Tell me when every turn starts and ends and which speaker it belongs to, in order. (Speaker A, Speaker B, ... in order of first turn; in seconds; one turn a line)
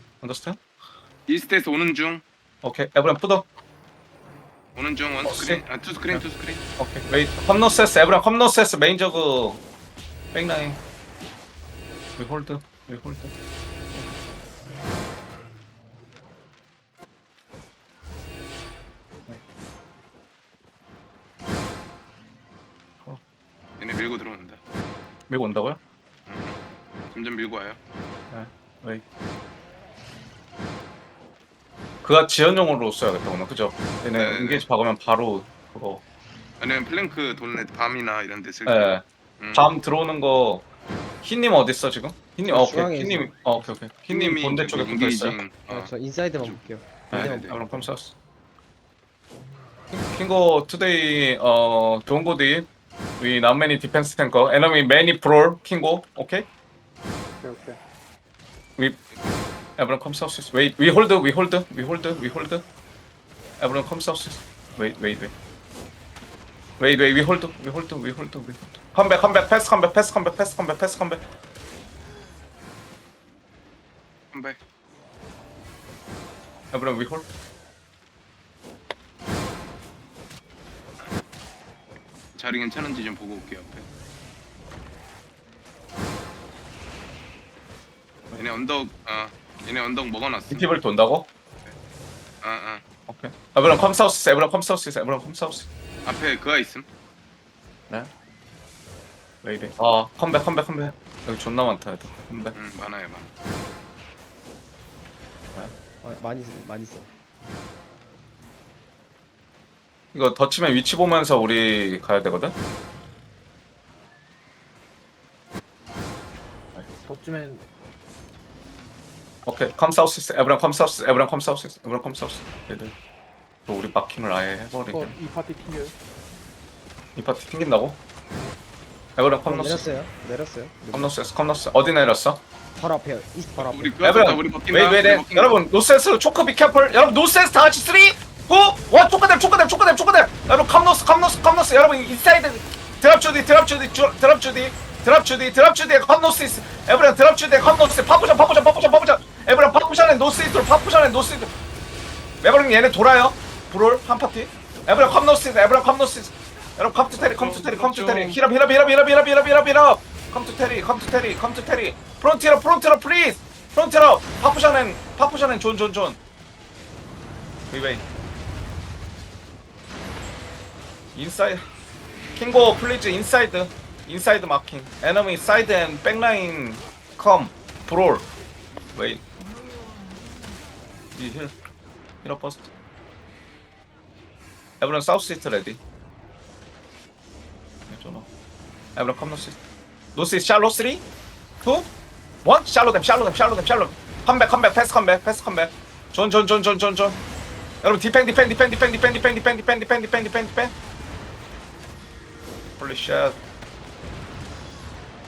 Speaker A: 0.2-0.6
Speaker B: 1.3-2.2
Speaker A: 2.6-3.5
Speaker B: 4.8-6.6
Speaker A: 5.2-6.2
Speaker A: 6.8-9.6
Speaker A: 10.3-10.8
Speaker A: 12.2-13.3
Speaker B: 23.8-24.6
Speaker A: 25.3-25.8
Speaker B: 26.3-26.6
Speaker B: 27.1-27.8
Speaker A: 28.3-29.0
Speaker A: 32.0-36.0
Speaker B: 34.2-34.6
Speaker B: 36.6-39.7
Speaker A: 38.7-40.6
Speaker A: 41.2-45.4
Speaker C: 42.5-43.3
Speaker B: 44.1-47.6
Speaker C: 45.7-47.9
Speaker A: 47.1-48.1
Speaker A: 49.9-52.7
Speaker A: 53.2-56.5
Speaker D: 57.4-57.8
Speaker A: 59.8-62.6
Speaker A: 63.6-65.3
Speaker A: 66.8-71.2
Speaker A: 76.7-77.2
Speaker B: 82.3-83.9
Speaker B: 88.3-90.7
Speaker A: 90.5-91.3
Speaker B: 92.4-92.8
Speaker A: 93.1-95.7
Speaker B: 96.0-96.9
Speaker A: 99.4-102.6
Speaker B: 102.5-103.3
Speaker C: 106.0-107.1
Speaker A: 110.1-112.5
Speaker D: 117.0-117.6
Speaker A: 119.5-123.0
Speaker A: 123.7-125.2
Speaker D: 124.9-126.0
Speaker A: 127.2-128.0
Speaker A: 129.2-129.9
Speaker C: 129.4-131.1
Speaker A: 130.9-132.4
Speaker C: 132.8-134.0
Speaker B: 133.6-135.6
Speaker A: 134.0-151.5
Speaker A: 152.4-166.2
Speaker B: 157.3-158.4
Speaker A: 167.7-168.0
Speaker A: 171.2-171.6
Speaker A: 172.4-178.3
Speaker A: 178.9-179.2
Speaker A: 181.2-181.5
Speaker A: 182.2-182.7
Speaker A: 184.8-185.8
Speaker A: 187.9-188.3
Speaker A: 189.0-189.6
Speaker A: 190.2-191.0
Speaker A: 191.6-191.9
Speaker A: 192.4-197.2
Speaker A: 197.8-200.7
Speaker A: 202.8-203.4